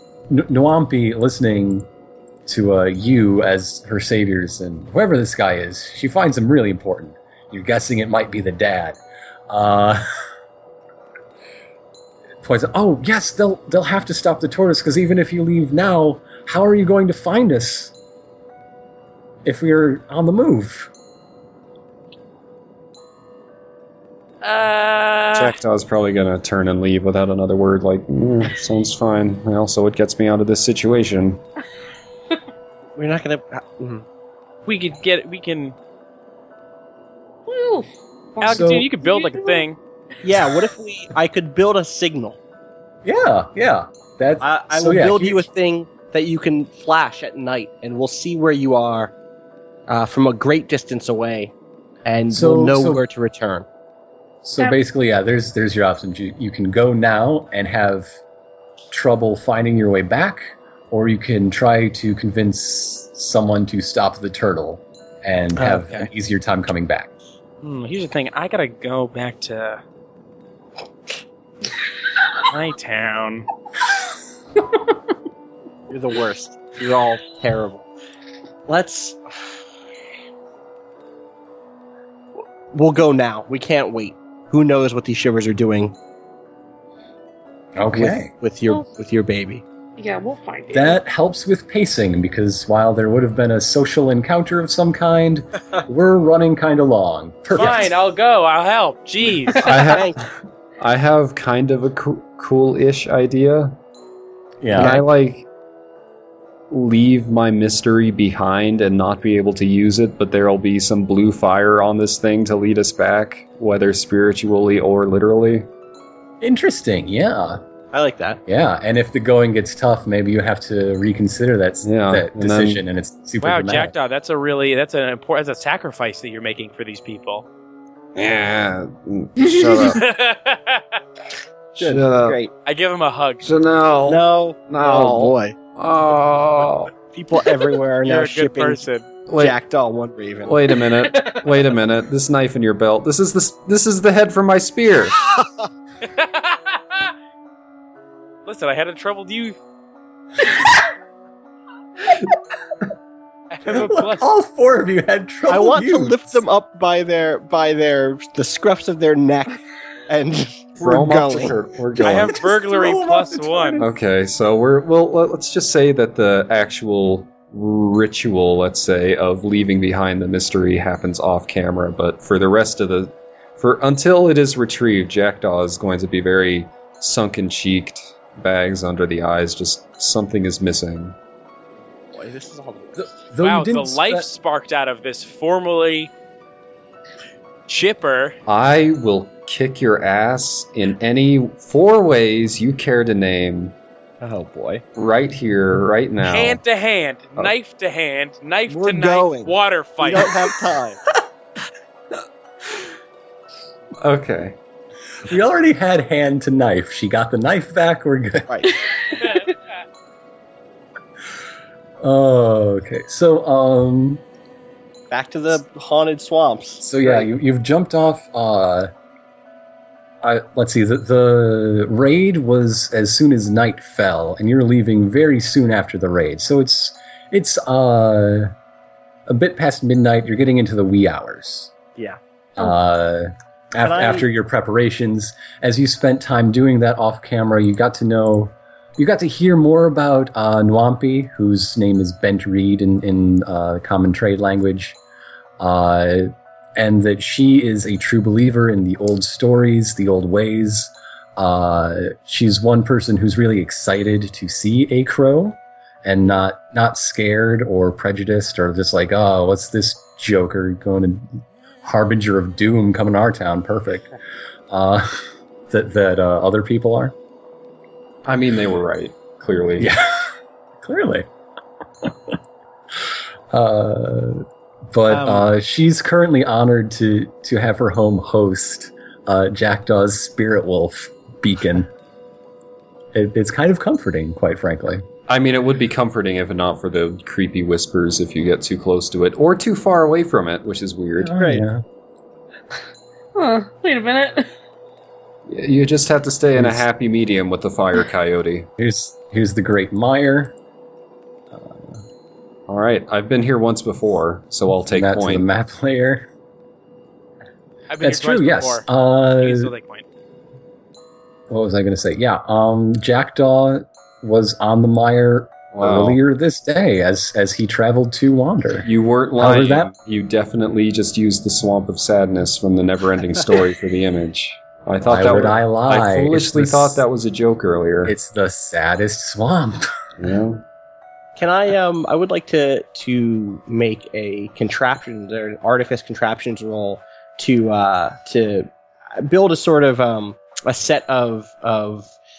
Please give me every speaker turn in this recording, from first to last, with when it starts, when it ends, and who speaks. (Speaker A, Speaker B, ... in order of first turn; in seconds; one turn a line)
Speaker A: 0.3-1.9
Speaker A: 2.5-10.0
Speaker A: 12.4-17.9
Speaker A: 19.4-20.9
Speaker B: 24.4-25.6
Speaker C: 25.3-31.4
Speaker D: 33.0-34.0
Speaker B: 34.6-35.7
Speaker E: 37.5-39.6
Speaker B: 38.4-39.8
Speaker A: 38.5-38.9
Speaker D: 40.2-42.4
Speaker A: 43.0-45.5
Speaker D: 44.4-49.1
Speaker D: 49.9-51.5
Speaker D: 52.0-53.6
Speaker A: 52.3-53.0
Speaker A: 54.4-58.1
Speaker A: 58.9-67.1
Speaker D: 65.5-66.1
Speaker B: 67.6-69.8
Speaker B: 72.5-73.5
Speaker D: 75.9-77.8
Speaker D: 78.7-79.2
Speaker D: 82.7-85.9
Speaker A: 87.8-88.3
Speaker D: 87.9-89.6
Speaker E: 90.0-91.0
Speaker A: 90.7-97.9
Speaker B: 97.5-99.7
Speaker C: 99.6-100.2
Speaker D: 99.6-100.2
Speaker C: 100.8-103.8
Speaker A: 104.6-105.0
Speaker C: 104.7-105.5
Speaker D: 104.8-105.0
Speaker C: 106.7-115.7
Speaker A: 116.4-117.6
Speaker D: 117.9-118.4
Speaker A: 118.5-123.9
Speaker C: 121.8-122.8
Speaker B: 123.4-127.5
Speaker C: 128.2-130.0
Speaker B: 129.7-131.0
Speaker D: 131.8-132.5
Speaker C: 131.8-132.4
Speaker B: 132.7-133.4
Speaker C: 133.4-136.9
Speaker D: 134.1-135.5
Speaker D: 137.1-138.8
Speaker B: 138.0-139.1
Speaker C: 139.3-139.6
Speaker D: 139.4-140.5
Speaker C: 140.4-145.3
Speaker B: 146.0-147.1
Speaker B: 148.4-149.6
Speaker B: 153.5-154.3
Speaker A: 153.7-156.4
Speaker D: 155.5-161.6
Speaker C: 160.8-162.4
Speaker B: 162.0-163.8
Speaker A: 162.3-163.9
Speaker C: 163.8-181.2
Speaker D: 182.1-183.1
Speaker A: 182.9-184.3
Speaker B: 183.4-186.1
Speaker B: 187.7-188.4
Speaker C: 188.4-193.7
Speaker D: 194.2-194.8
Speaker C: 194.9-196.6
Speaker B: 196.2-200.3
Speaker D: 198.7-201.0
Speaker C: 204.0-204.6
Speaker A: 205.3-208.7
Speaker D: 208.5-208.8
Speaker A: 212.0-214.2
Speaker D: 215.1-217.3
Speaker A: 216.8-218.9
Speaker A: 220.2-228.5
Speaker A: 229.3-231.7
Speaker A: 232.6-245.0
Speaker D: 233.8-234.2
Speaker A: 245.6-264.1
Speaker A: 264.7-265.1
Speaker A: 265.7-267.1
Speaker C: 268.2-269.9
Speaker A: 269.8-270.1
Speaker A: 270.8-271.2
Speaker A: 272.0-272.3
Speaker A: 273.5-281.9
Speaker D: 275.1-275.5
Speaker A: 283.1-285.0
Speaker C: 285.3-291.4
Speaker A: 291.2-291.8
Speaker D: 291.3-291.6
Speaker E: 293.3-294.5
Speaker C: 295.5-298.7
Speaker A: 296.5-296.9
Speaker A: 298.8-300.5
Speaker A: 301.5-302.0
Speaker C: 302.7-305.4
Speaker A: 304.9-306.3
Speaker B: 307.9-308.9
Speaker A: 308.0-309.7
Speaker B: 309.4-310.0
Speaker A: 311.5-319.9
Speaker C: 315.7-316.2
Speaker C: 318.8-328.1
Speaker A: 325.0-327.0
Speaker A: 328.0-329.9
Speaker C: 330.2-330.6
Speaker D: 331.4-342.1